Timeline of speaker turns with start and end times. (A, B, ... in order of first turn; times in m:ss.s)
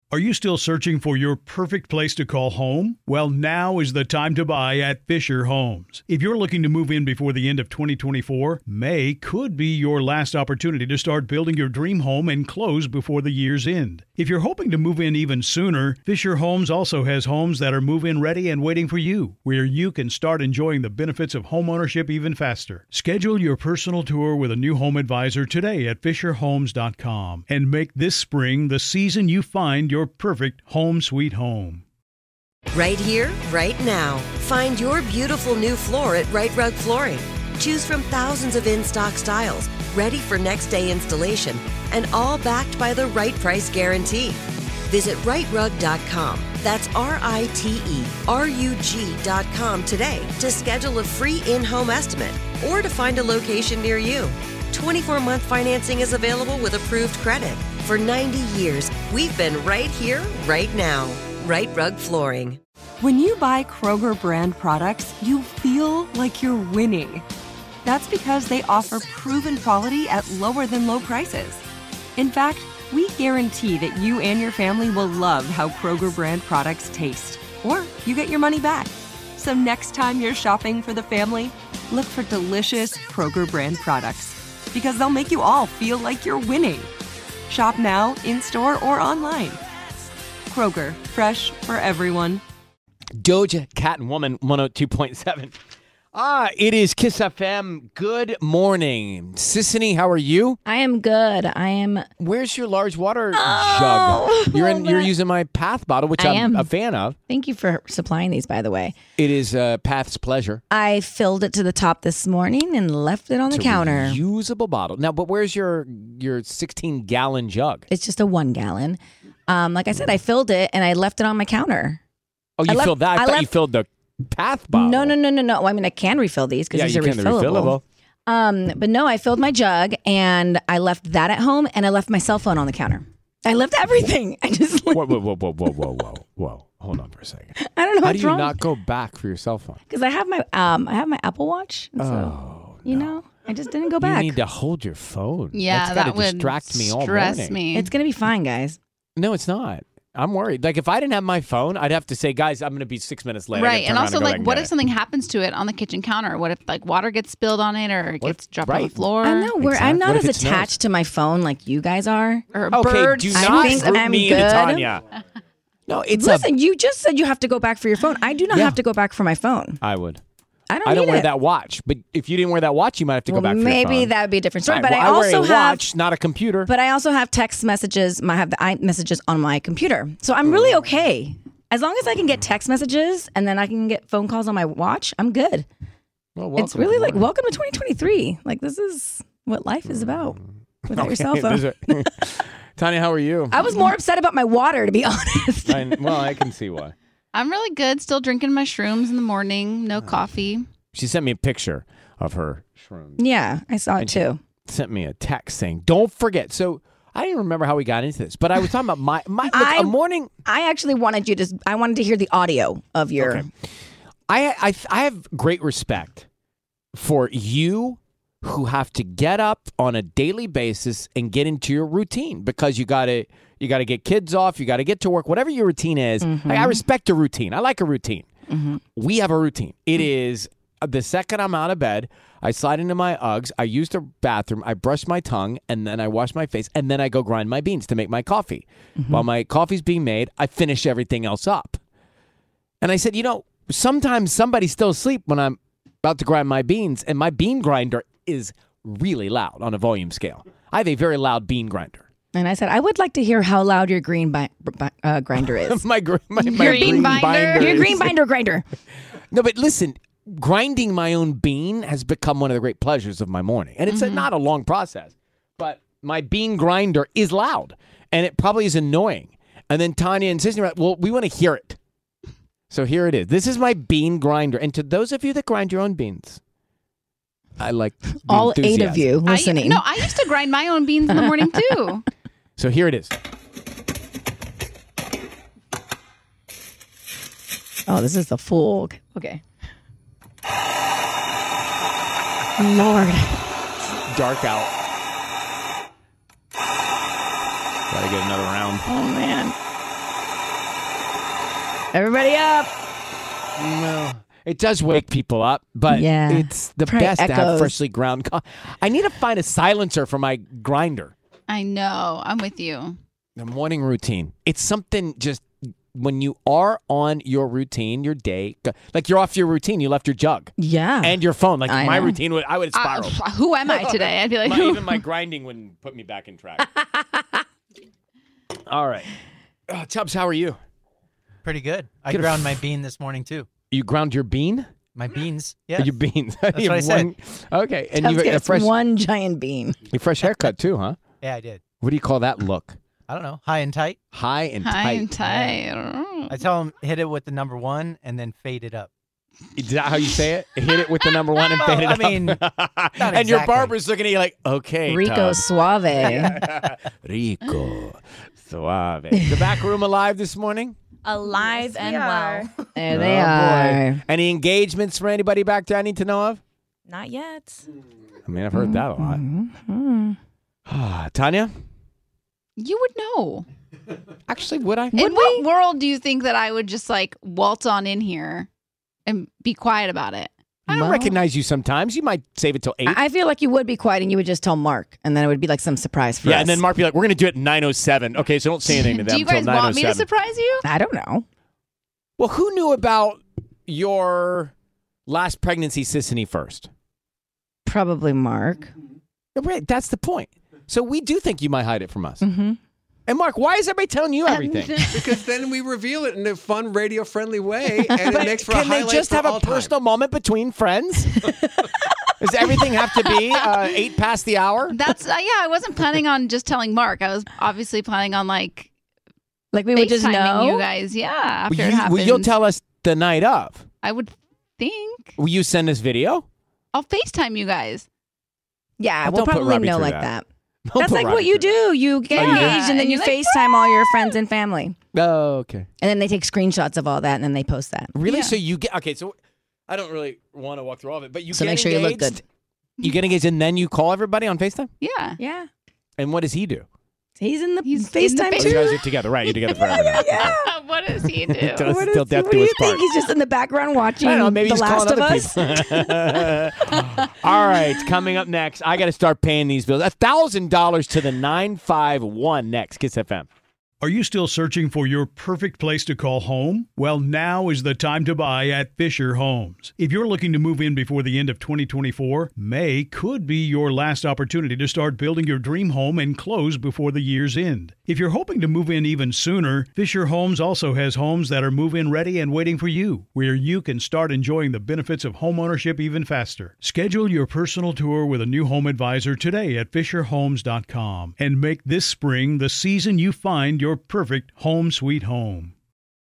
0:00.1-0:31.8 A
0:32.7-1:02.6 B
1:03.0-1:07.3 C
1:07.8-1:11.6 C
1:12.2-1:26.9 C
1:27.5-1:29.6 C
1:30.5-1:32.4 C
1:33.2-1:35.6 D
1:36.1-1:40.6 D
1:40.7-1:42.1 E
1:42.2-1:47.2 D
1:43.4-1:45.1 E
1:46.2-1:46.7 E
1:47.3-1:49.0 E
1:49.2-1:50.6 D
1:50.7-1:54.2 E
1:53.5-1:57.9 D
1:57.9-2:02.0 E
2:02.6-2:05.2 D
2:02.7-2:03.5 E
2:04.7-2:16.0 E
2:06.7-2:07.8 D
2:14.9-2:19.8 D
2:17.6-2:18.6 E
2:19.9-2:24.4 E
2:22.0-2:23.2 D
2:24.0-2:27.6 D
2:25.5-2:27.9 F
2:27.7-2:28.8 E
2:29.2-2:34.7 D
2:33.6-2:39.5 F
2:38.2-2:40.7 D
2:39.2-2:42.4 E
2:42.5-2:44.0 F
2:42.7-2:45.0 D
2:43.3-2:44.9 E
2:45.9-2:46.5 D
2:46.2-2:49.8 E
2:48.5-2:48.8 D
2:49.8-2:50.2 D
2:50.7-2:51.3 E
2:50.8-2:54.1 D
2:53.3-2:55.8 E
2:54.7-2:56.7 D
2:56.6-3:05.7 E
3:06.4-3:07.3 D
3:06.6-3:10.4 E
3:10.1-3:13.6 D
3:10.9-3:11.7 E
3:13.5-3:16.2 E
3:15.6-3:17.0 D
3:17.3-3:20.6 F
3:20.0-3:20.3 D
3:20.9-3:23.2 D
3:23.2-3:24.4 E
3:24.0-3:30.3 D
3:29.5-3:33.5 E
3:33.2-3:33.5 D
3:34.3-3:36.3 D
3:37.0-3:48.3 D
3:46.2-3:46.8 E
3:48.5-3:48.8 E
3:49.0-4:01.8 D
3:59.0-3:59.2 E
4:02.8-4:12.1 D
4:12.3-4:15.8 E
4:15.4-4:18.2 D
4:16.4-4:17.8 F
4:16.4-4:18.7 E
4:19.3-4:31.8 D
4:23.9-4:24.3 F
4:32.7-4:36.4 D
4:37.6-4:39.2 D
4:38.2-4:40.1 E
4:39.2-4:42.0 F
4:41.1-4:41.6 E
4:42.6-4:43.2 D
4:47.9-4:49.4 E
4:52.6-4:53.5 E
4:53.8-4:54.7 D
4:57.9-4:58.9 D
4:58.8-4:59.6 E
5:01.9-5:02.7 E
5:03.6-5:11.1 D
5:05.9-5:07.8 E
5:11.5-5:13.0 F
5:13.4-5:23.2 D
5:20.6-5:22.2 E
5:22.7-5:25.0 F
5:23.7-5:26.8 D
5:28.7-5:29.1 D
5:29.7-5:30.6 D
5:31.4-5:33.5 G
5:32.1-5:32.6 D
5:33.7-5:34.7 D
5:35.0-5:35.8 G
5:35.8-5:38.8 D
5:36.6-5:37.1 G
5:38.0-5:39.8 E
5:39.9-5:41.0 D
5:41.2-5:41.6 G
5:41.8-5:42.8 D
5:43.1-5:44.0 G
5:44.1-5:45.2 D
5:44.6-5:46.4 F
5:46.3-5:48.9 G
5:49.6-6:00.8 D
5:51.6-5:52.3 G
5:53.1-5:53.7 G
5:54.9-5:56.4 E
6:01.1-6:02.5 H
6:02.8-6:04.0 E
6:02.9-6:06.4 D
6:06.9-6:07.6 H
6:08.3-6:09.2 D
6:08.5-6:10.2 E
6:10.7-6:11.5 D
6:12.6-6:13.5 F
6:14.3-6:15.1 D
6:14.9-6:18.5 F
6:15.0-6:15.4 E
6:19.1-6:21.2 F
6:20.7-6:23.0 D
6:22.8-6:26.6 E
6:26.2-6:30.1 D
6:28.7-6:30.6 F
6:30.6-6:31.3 E
6:32.2-6:34.5 D
6:35.1-6:36.7 D
6:37.6-6:38.7 E
6:39.4-6:42.2 D
6:42.2-6:42.6 E
6:43.1-6:45.1 D
6:44.5-6:45.0 F
6:44.9-6:49.7 I
6:47.7-6:48.1 E
6:48.0-6:51.2 D
6:52.2-6:54.8 D
6:54.7-6:58.7 F
6:59.5-7:00.6 E
6:59.7-7:02.4 F
7:01.5-7:03.7 D
7:03.8-7:05.2 F
7:05.2-7:06.2 D
7:06.7-7:07.9 F
7:08.8-7:10.2 E
7:09.0-7:10.1 D
7:10.7-7:11.6 D
7:10.8-7:14.8 E
7:12.1-7:14.1 F
7:12.2-7:12.6 D
7:14.9-7:15.7 D
7:15.8-7:18.0 E
7:18.0-7:19.2 D
7:18.1-7:18.4 F
7:19.7-7:22.2 D
7:21.3-7:22.2 E
7:22.8-7:24.7 D
7:24.8-7:25.2 F
7:25.2-7:25.5 E
7:26.0-7:26.7 D
7:27.2-7:28.8 E
7:27.6-7:31.6 F
7:28.4-7:30.2 D
7:29.6-7:30.5 E
7:31.0-7:32.8 D
7:31.6-7:36.5 E
7:34.0-7:43.3 D
7:43.8-8:15.5 A